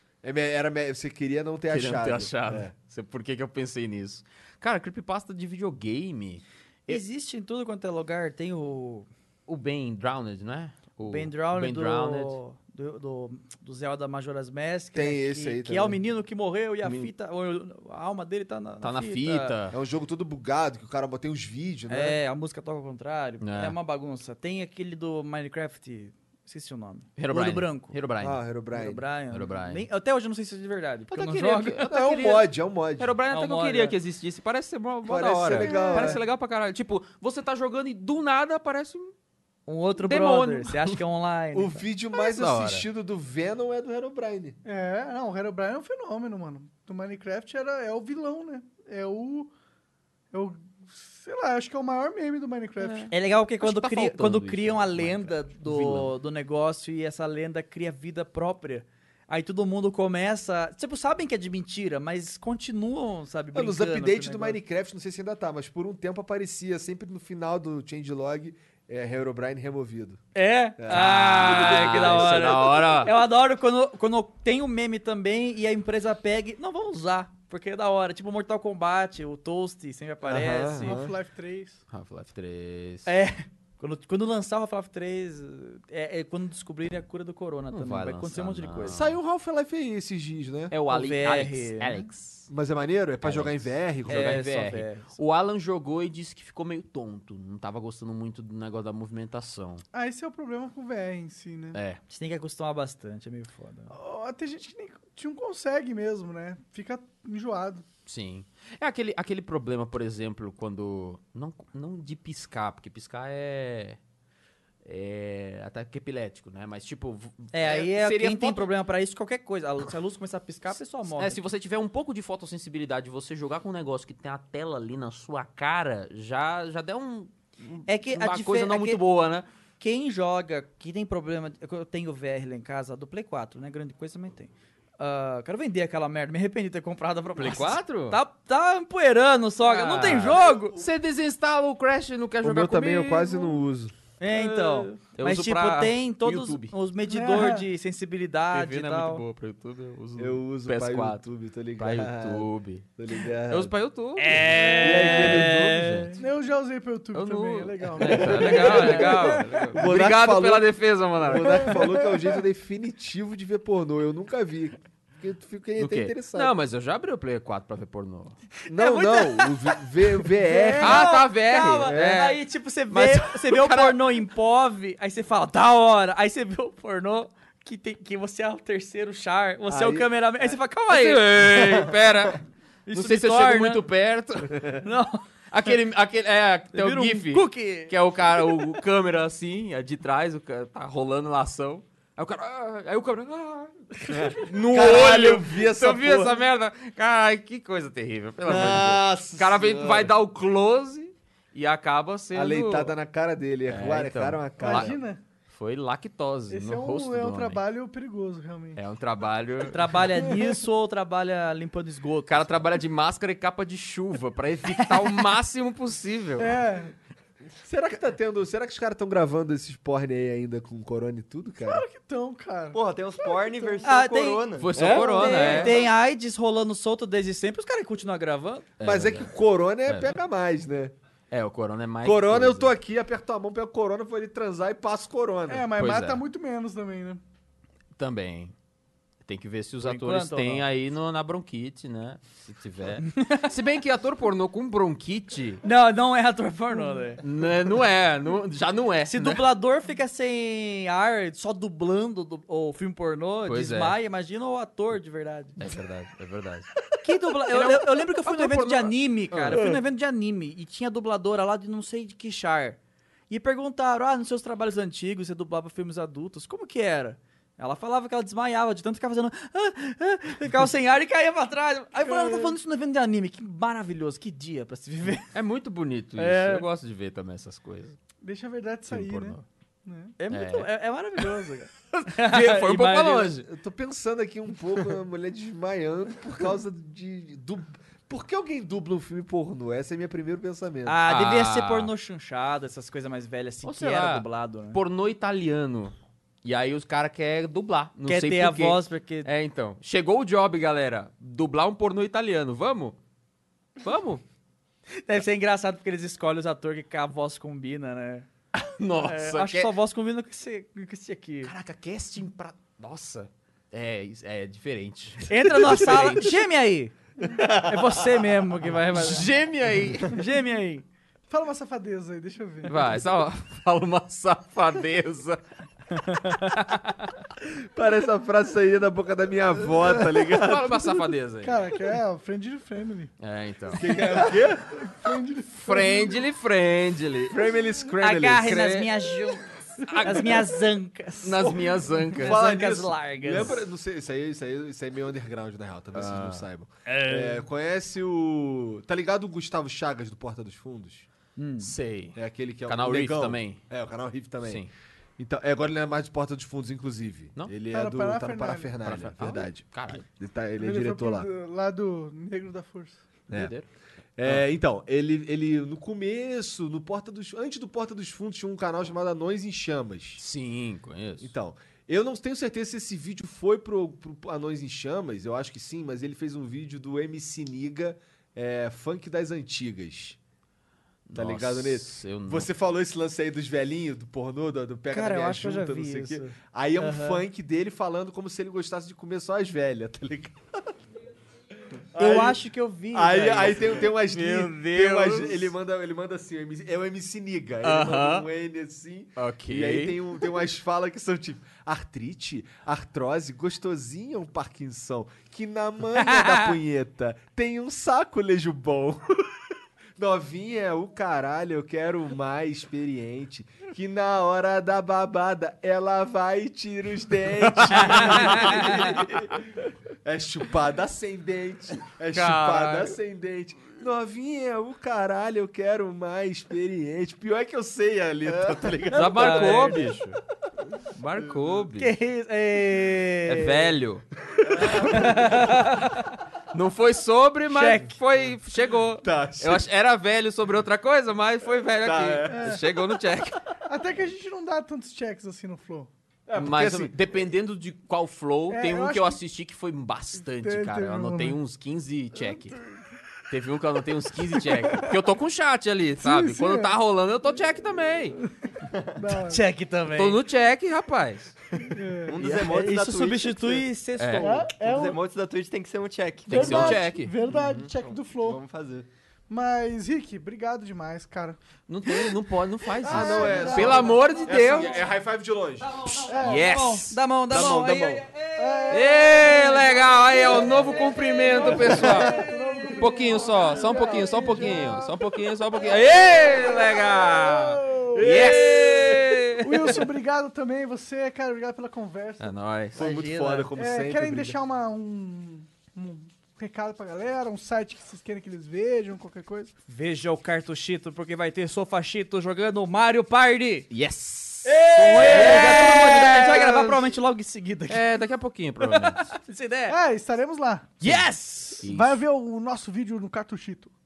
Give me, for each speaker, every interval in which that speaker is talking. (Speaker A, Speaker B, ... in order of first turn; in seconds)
Speaker A: 0.2-2.7, 14.9-16.0, 19.7-22.2, 28.2-29.0, 31.8-33.1, 35.1-36.2, 41.5-44.6, 63.5-70.2, 70.8-72.5, 80.2-81.2, 88.9-90.7, 92.5-94.4, 140.3-140.8, 142.4-143.9, 150.2-153.7, 154.5-156.0, 159.7-166.5, 168.7-171.1, 171.8-172.3, 179.7-180.1, 194.1-196.4, 198.4-200.1, 202.3-205.0, 217.6-221.8, 224.8-225.7, 228.8-230.9, 232.0-235.7, 283.5-291.0, 327.4-331.0, 333.7-334.8, 337.3-338.8, 341.4-351.1, 352.2-354.7, 355.2-361.3, 363.3-363.6, 364.2-370.2, 371.2-380.2, 381.1-390.7, 391.9-392.4, 392.9-409.0, 410.0-419.3, 420.0-429.8, 434.5-435.1, 439.0-439.7, 441.8-442.6, 446.3-446.9, 472.9-475.7, 477.3-478.1, 481.6-482.1, 487.9-489.3, 492.8-494.4, 504.4-506.6
Speaker B: 1.7-7.0, 9.5-12.4, 16.8-17.1, 18.8-19.8, 23.4-23.8, 27.2-28.4, 29.3-29.9, 31.1-32.5, 33.0-39.1, 40.0-41.0, 42.2-42.9, 52.8-56.1, 70.9-73.1, 81.9-83.1, 87.7-89.2, 90.7-92.5, 93.2-99.8, 101.7-102.0, 108.1-114.0, 114.8-118.7, 121.2-129.5, 137.4-138.2, 139.6-143.6, 144.3-146.7, 148.5-152.9, 153.5-156.2, 157.1-161.8, 165.8-168.4, 170.8-174.2, 180.9-184.8, 185.5-202.9, 203.7-204.9, 205.5-207.6, 208.8-210.0, 212.3-216.6, 224.6-225.8, 228.8-229.3, 229.9-230.2, 231.3-232.7, 235.8-236.2, 238.0-238.5, 239.2-245.6, 247.2-249.4, 253.5-253.9, 255.6-256.7, 257.5-259.7, 275.3-278.0, 278.9-279.4, 280.3-280.7, 281.9-283.5, 291.1-291.9, 293.6-303.0, 303.8-304.2, 308.6-309.7, 311.4-316.4, 318.9-320.2, 322.7-325.4, 326.2-326.9, 330.3-331.8, 333.2-333.9, 335.5-337.4, 338.5-338.9, 339.8-340.4, 341.2-342.4, 345.9-346.5, 351.6-353.6, 354.4-354.7, 358.9-360.0, 363.3-363.7, 370.2-371.3, 381.1-382.5, 394.1-395.5, 397.6-398.3, 399.2-400.0, 417.5-419.1, 422.1-423.0, 428.9-430.2, 430.9-431.9, 433.3-434.0, 434.8-435.2, 436.5-443.4, 446.4-452.6, 453.3-458.2, 459.9-461.4, 464.0-464.3, 466.3-467.7, 471.7-474.8, 475.9-477.4, 478.7-482.2, 482.8-489.9, 492.2-492.8, 503.7-506.9, 507.7-509.1, 510.8-512.0
Speaker C: 6.9-9.1, 11.0-19.6, 21.9-27.9, 28.7-31.8, 33.3-34.0, 39.7-41.8, 53.1-64.6, 70.3-81.0, 83.1-89.0, 90.9-92.1, 94.1-95.2, 102.1-103.9, 117.5-121.4, 127.9-129.0, 129.8-140.8, 144.2-149.2, 154.2-156.1, 158.4-159.4, 168.7-181.3, 182.9-183.8, 184.8-185.2, 186.7-188.8, 209.7-212.5, 223.8-228.7, 239.8-240.7, 243.1-243.5, 245.6-247.2, 249.1-255.6, 257.0-262.8, 263.3-275.3, 276.2-276.6, 280.2-283.3, 290.9-294.8, 298.0-299.3, 305.1-308.3, 309.0-311.5, 315.3-319.3, 320.1-320.9, 325.9-326.6, 338.0-341.6, 342.1-343.6, 346.9-347.5, 351.4-351.7, 386.8-387.2, 392.0-393.8, 406.0-406.5, 418.4-418.7, 428.9-430.0, 431.8-433.8, 434.7-436.1, 437.5-438.0, 459.2-460.2, 462.2-464.5, 475.6-478.7, 492.8-493.5, 499.7-503.7, 504.8-507.8, 508.6-509.8, 510.8-511.7
Speaker D: 35.6-36.2, 44.6-49.5, 50.3-53.1, 80.8-81.8, 99.9-101.8, 103.9-107.8, 147.1-147.7, 154.7-155.0, 156.2-159.8, 161.4-162.4, 170.5-170.8, 204.6-205.2, 206.5-208.8, 210.2-210.6, 216.4-216.9, 221.6-224.0, 225.4-225.6, 235.5-237.2, 272.0-272.6, 278.2-280.1, 321.3-322.8, 331.4-333.1, 333.8-336.2, 357.7-358.8, 360.6-363.0, 384.9-386.3, 442.3-442.6, 443.7-445.9, 448.5-449.2, 450.4-451.4, 456.0-456.8, 459.0-459.4, 461.7-462.2, 464.2-465.0, 466.3-468.4, 469.3-471.4, 472.8-474.3, 476.1-476.4, 478.4-485.0, 486.7-488.1, 489.4-492.3, 493.6-499.5, 509.7-510.7, 511.6-513.7
Speaker E: 222.7-225.0, 428.3-428.7, 462.1-463.6, 464.6-468.9